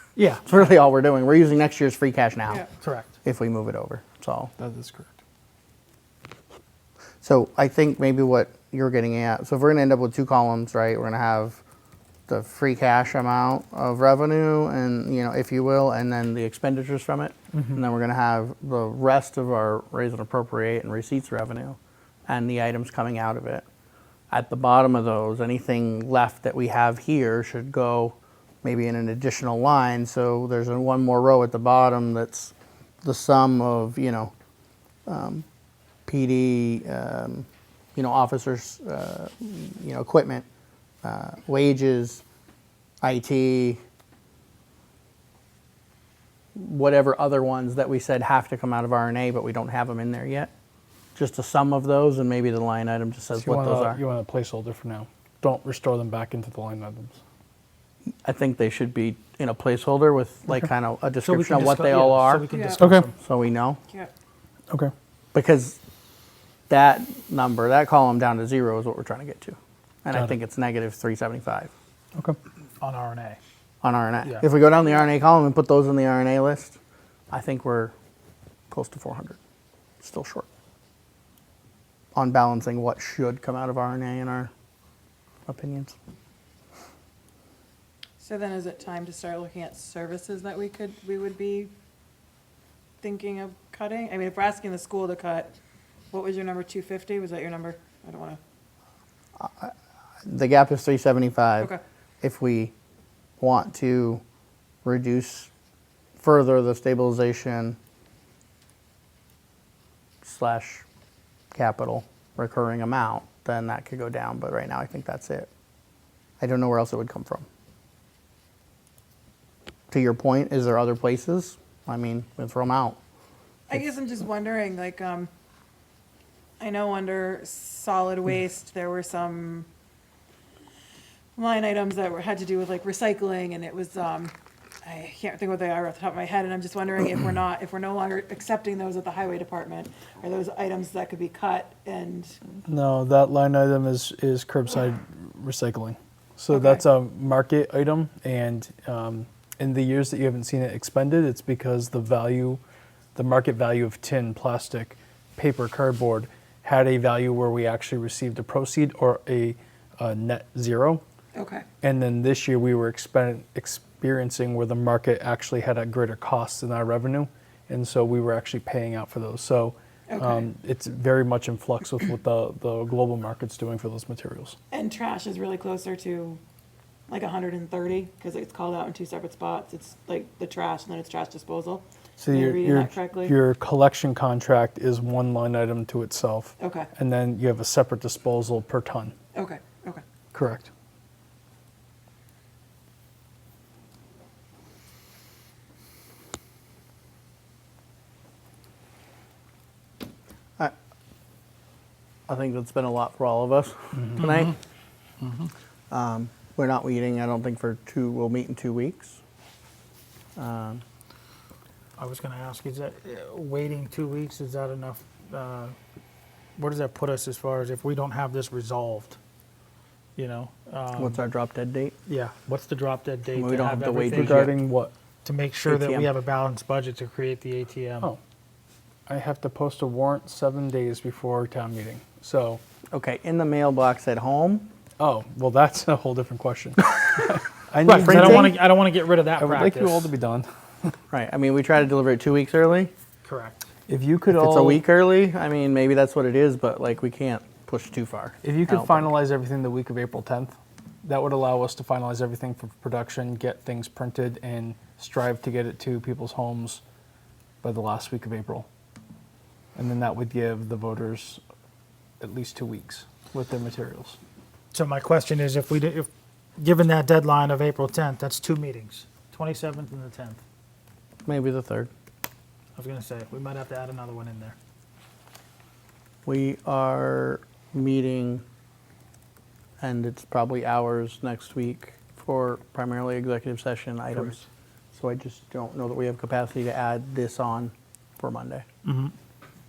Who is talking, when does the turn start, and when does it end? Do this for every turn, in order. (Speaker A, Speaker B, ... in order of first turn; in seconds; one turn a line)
Speaker A: 0.1-0.5
Speaker B: 0.4-2.6
Speaker A: 2.8-3.1
Speaker B: 3.2-4.5
Speaker C: 4.6-5.2
Speaker B: 7.2-11.6
Speaker B: 12.3-23.6
Speaker B: 24.3-34.3
Speaker B: 35.1-35.5
Speaker B: 36.0-40.5
Speaker B: 41.0-42.2
Speaker B: 43.0-43.8
Speaker B: 46.5-50.5
Speaker B: 51.2-54.0
Speaker C: 53.4-57.2
Speaker B: 58.2-62.5
Speaker A: 61.2-63.1
Speaker D: 62.5-62.8
Speaker C: 62.8-63.1
Speaker B: 63.2-63.8
Speaker B: 65.3-65.8
Speaker B: 66.7-71.7
Speaker A: 72.8-73.4
Speaker B: 73.8-76.8
Speaker D: 74.8-75.1
Speaker B: 77.3-77.9
Speaker B: 78.7-79.4
Speaker B: 80.0-80.5
Speaker B: 82.1-84.5
Speaker B: 85.5-86.0
Speaker D: 88.2-91.7
Speaker D: 93.0-95.5
Speaker D: 96.1-98.4
Speaker B: 99.4-99.7
Speaker B: 100.2-102.7
Speaker B: 103.4-104.2
Speaker B: 104.8-105.5
Speaker B: 106.2-107.8
Speaker B: 110.2-110.8
Speaker B: 111.5-115.5
Speaker B: 116.4-117.5
Speaker B: 119.9-123.0
Speaker D: 123.7-125.3
Speaker D: 126.6-129.7
Speaker D: 131.3-142.4
Speaker C: 142.7-152.6
Speaker D: 146.5-146.8
Speaker C: 153.2-161.0
Speaker D: 161.3-161.7
Speaker C: 161.8-174.6
Speaker D: 170.1-170.5
Speaker D: 174.7-176.4
Speaker D: 177.1-183.3
Speaker C: 182.2-189.1
Speaker D: 186.6-186.9
Speaker D: 189.3-190.0
Speaker C: 190.3-190.7
Speaker B: 202.3-204.6
Speaker B: 205.9-209.2
Speaker B: 210.3-210.8
Speaker A: 212.0-215.8
Speaker A: 216.6-219.2
Speaker A: 220.2-221.2
Speaker B: 221.0-221.9
Speaker A: 222.1-224.5
Speaker B: 223.3-224.5
Speaker C: 224.2-224.9
Speaker A: 225.2-228.1
Speaker B: 225.7-226.1
Speaker C: 229.1-232.6
Speaker B: 232.9-234.7
Speaker C: 235.0-238.6
Speaker A: 237.8-240.1
Speaker C: 239.4-240.9
Speaker B: 241.1-242.9
Speaker A: 243.2-243.7
Speaker C: 243.9-244.8
Speaker B: 244.3-249.1
Speaker C: 248.4-256.8
Speaker C: 257.6-258.7
Speaker C: 259.8-261.4
Speaker C: 262.2-264.2
Speaker A: 264.7-270.4
Speaker B: 271.2-271.9
Speaker A: 272.8-274.6
Speaker B: 276.2-278.4
Speaker B: 279.8-288.6
Speaker A: 288.9-289.1